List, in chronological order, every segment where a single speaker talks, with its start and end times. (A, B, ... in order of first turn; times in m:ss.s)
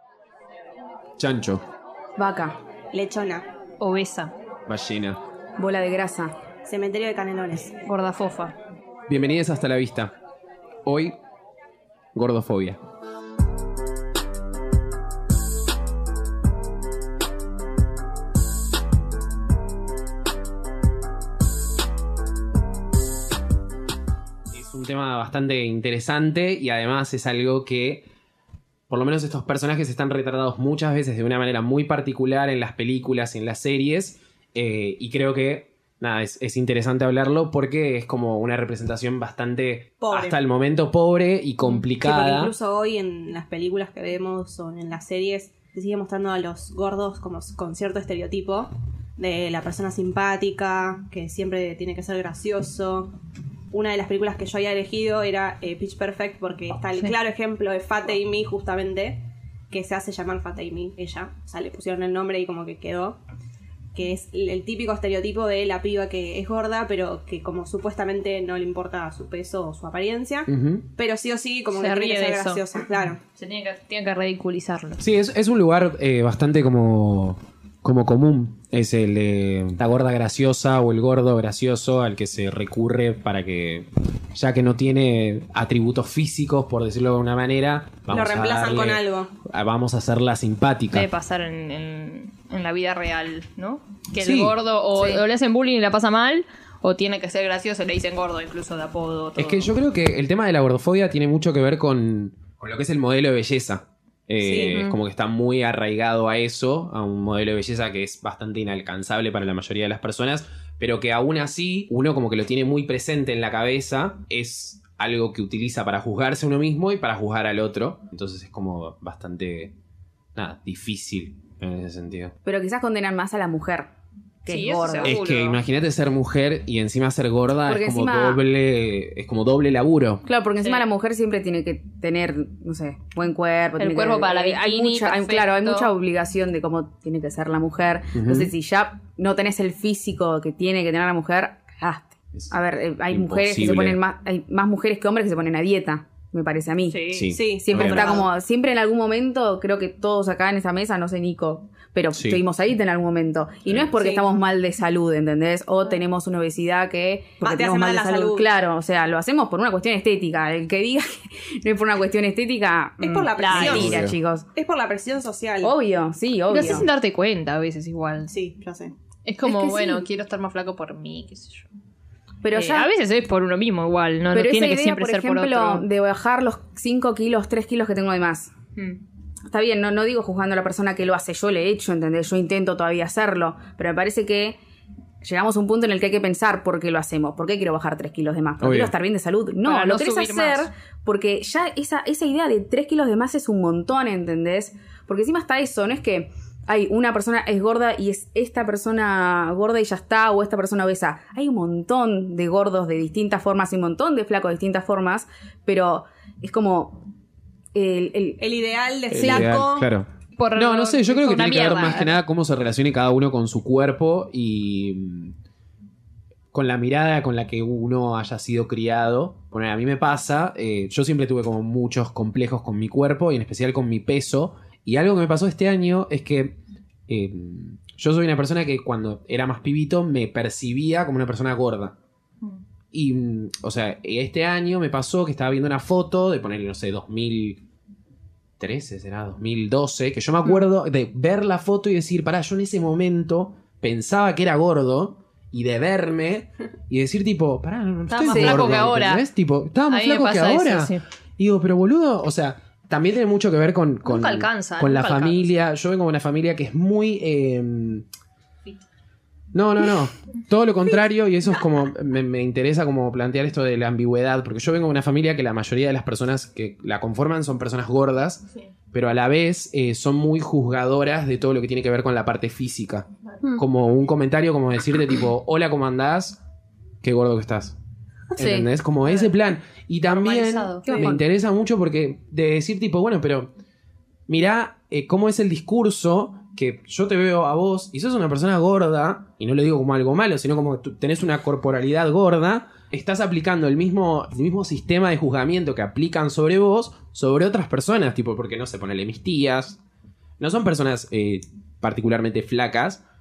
0:01.2-0:01.6 A
0:02.2-0:02.6 B
0:02.9-0:03.5 C
0:03.8-0:04.3 D
0:04.7-0:05.2 A
0:05.6-0:06.4 B
0:06.7-0:07.8 C
0:07.8-0:08.5 D
0:09.1-0:10.1 A
0:10.8-0:11.2 A
0:12.1-0:12.8 A
0:24.5-0:28.1 A
0:28.9-0:42.6 A
0:40.0-0:40.4 C
0:42.0-0:53.2 C
0:53.7-1:03.2 C
1:03.9-1:13.2 C
1:10.5-1:10.9 A
1:11.8-1:12.6 D
1:13.3-1:15.0 D
1:15.0-1:31.1 A
1:28.1-1:29.3 C
1:30.9-1:39.7 D
1:34.2-1:34.6 A
1:35.0-1:35.2 B
1:39.4-1:59.8 A
1:44.4-1:44.8 C
2:00.4-2:02.3 A
2:02.4-2:03.9 B
2:04.4-2:05.2 B
2:04.5-2:05.6 D
2:05.0-2:10.2 A
2:07.7-2:08.4 B
2:10.2-2:44.5 B
2:10.6-2:10.8 D
2:13.8-2:15.9 D
2:18.1-2:18.5 A
2:23.1-2:24.0 A
2:26.9-2:27.3 D
2:27.1-2:28.3 A
2:27.3-2:28.3 C
2:32.2-2:32.4 A
2:33.7-2:33.9 A
2:34.0-2:34.4 C
2:37.4-2:38.5 C
2:43.0-2:45.8 C
2:43.4-2:43.9 D
2:43.6-2:44.2 A
2:45.6-2:46.9 B
2:46.5-2:48.3 D
2:48.3-2:48.9 C
2:49.2-2:51.7 D
2:49.4-2:50.1 B
2:52.4-2:52.9 B
2:52.5-2:55.9 D
2:54.3-2:58.5 B
2:59.5-3:04.6 B
3:05.2-3:27.1 B
3:08.6-3:08.9 A
3:09.6-3:10.7 D
3:27.7-3:28.4 B
3:28.4-3:29.9 C
3:29.1-3:35.4 A
3:30.4-3:32.2 D
3:36.5-3:52.0 A
3:52.9-3:57.6 A
3:58.6-4:18.1 A
4:08.1-4:09.2 D
4:08.3-4:08.8 B
4:09.9-4:11.0 D
4:14.0-4:15.5 D
4:19.5-4:36.4 A
4:37.0-4:37.8 A
4:38.4-4:43.5 A
4:38.4-4:38.7 B
4:40.1-4:41.1 D
4:40.9-4:41.2 B
4:44.3-4:59.8 A
5:00.4-5:03.0 A